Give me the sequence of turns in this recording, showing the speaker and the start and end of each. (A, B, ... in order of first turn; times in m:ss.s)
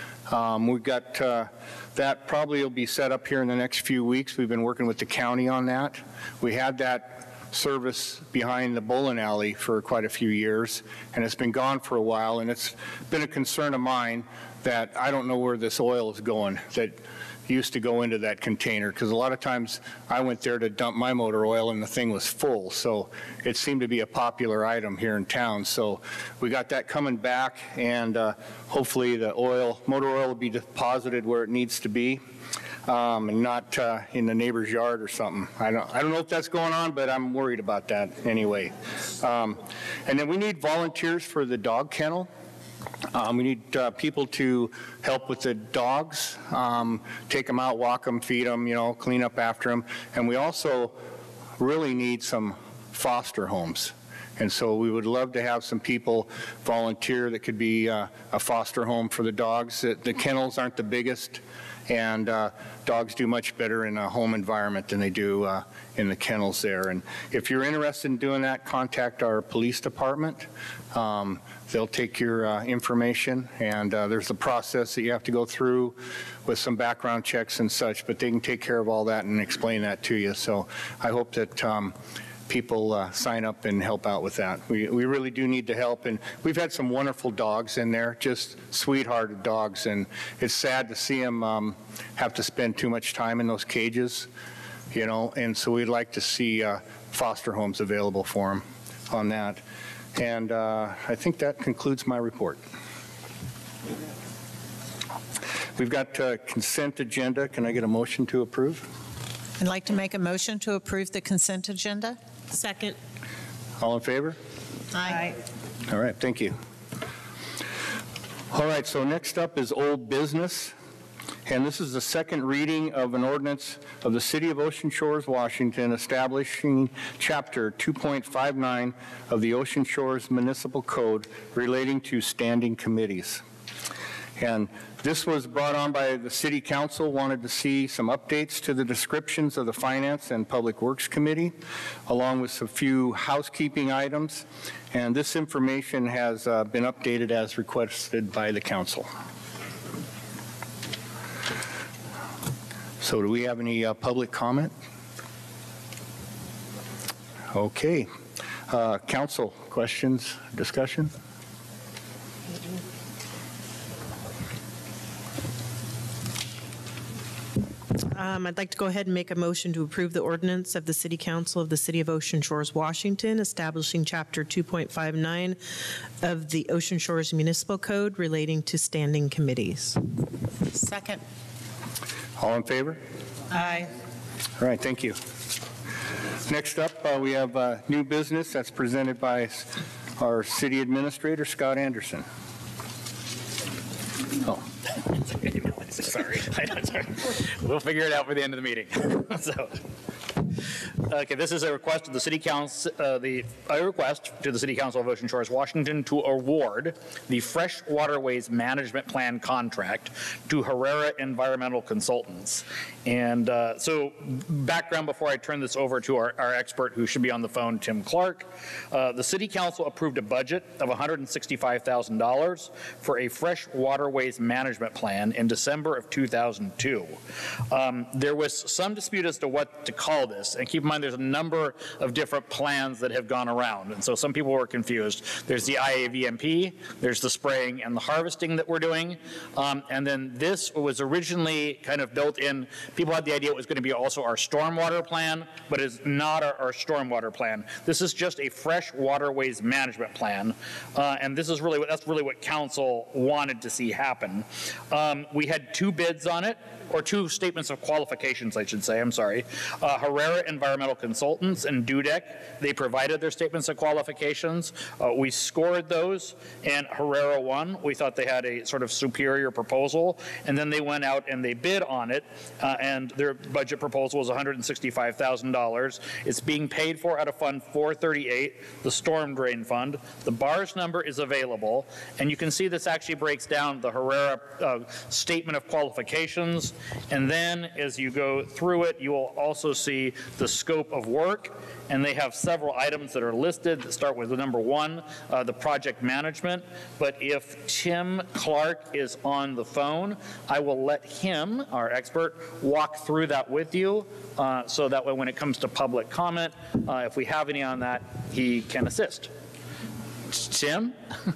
0:00.3-0:32.2 A
0:32.8-0:42.3 A
0:43.1-0:51.0 A
0:51.6-1:22.0 A
1:22.5-1:34.3 A
1:34.9-1:39.6 A
1:40.2-1:42.6 A
1:45.8-1:48.9 A
1:49.6-1:52.2 B
1:52.5-1:53.0 C
1:53.8-1:54.4 A
1:54.9-1:55.4 B
1:55.9-1:56.6 A
1:58.5-2:00.7 A
2:01.5-2:13.4 A
2:14.4-2:21.6 A
2:22.1-2:29.1 A
2:33.0-2:34.7 A
2:37.5-2:38.1 A
2:38.7-2:41.1 A
2:48.1-2:55.6 C
2:56.2-3:00.0 C
3:00.7-3:01.2 B
3:02.4-3:03.0 A
3:03.5-3:03.9 B
3:04.6-3:05.2 A
3:06.4-3:12.2 A
3:15.2-3:19.8 D
3:21.0-3:47.2 D
3:47.7-5:09.3 D
5:10.3-5:11.0 D